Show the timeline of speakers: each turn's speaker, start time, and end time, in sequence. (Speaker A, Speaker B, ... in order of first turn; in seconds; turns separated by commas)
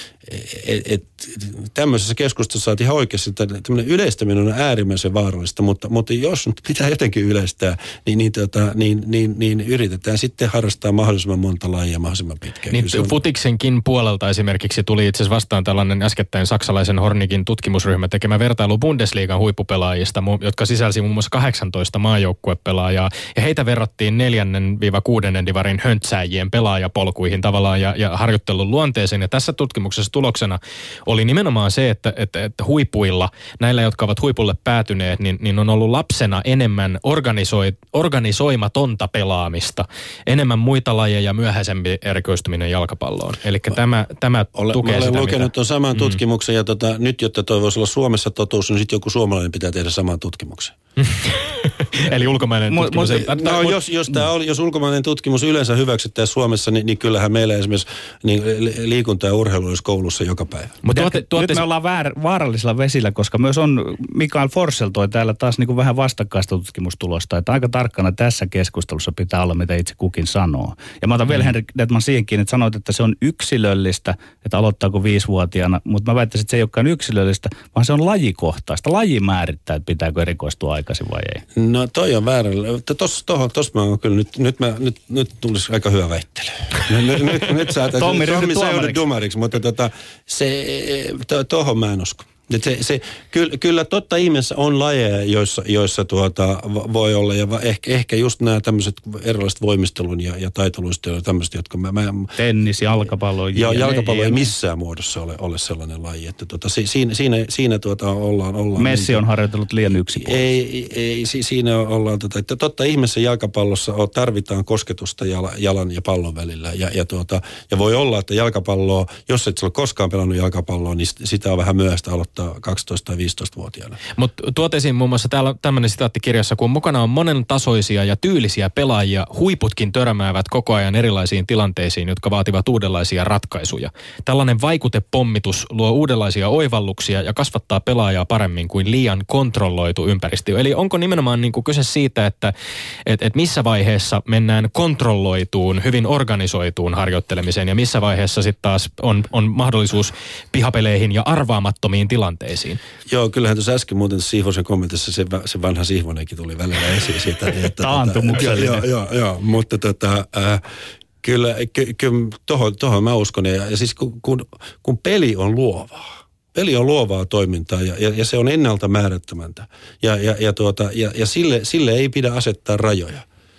Speaker A: 0.2-13.2, Speaker B: 12.7-46.2, Speaker A: 44.6-50.8, Speaker B: 51.0-53.8, Speaker C: 52.7-53.3, Speaker A: 53.0-60.8, Speaker B: 60.8-61.6, Speaker C: 60.9-81.4, Speaker A: 81.5-102.3, Speaker C: 88.0-89.0, Speaker C: 102.4-104.5, Speaker A: 103.5-109.2, Speaker C: 108.8-110.5, Speaker A: 110.1-124.0, Speaker B: 124.2-142.5, Speaker B: 143.1-152.8, Speaker A: 153.1-160.7, Speaker C: 157.8-158.8, Speaker A: 161.2-173.2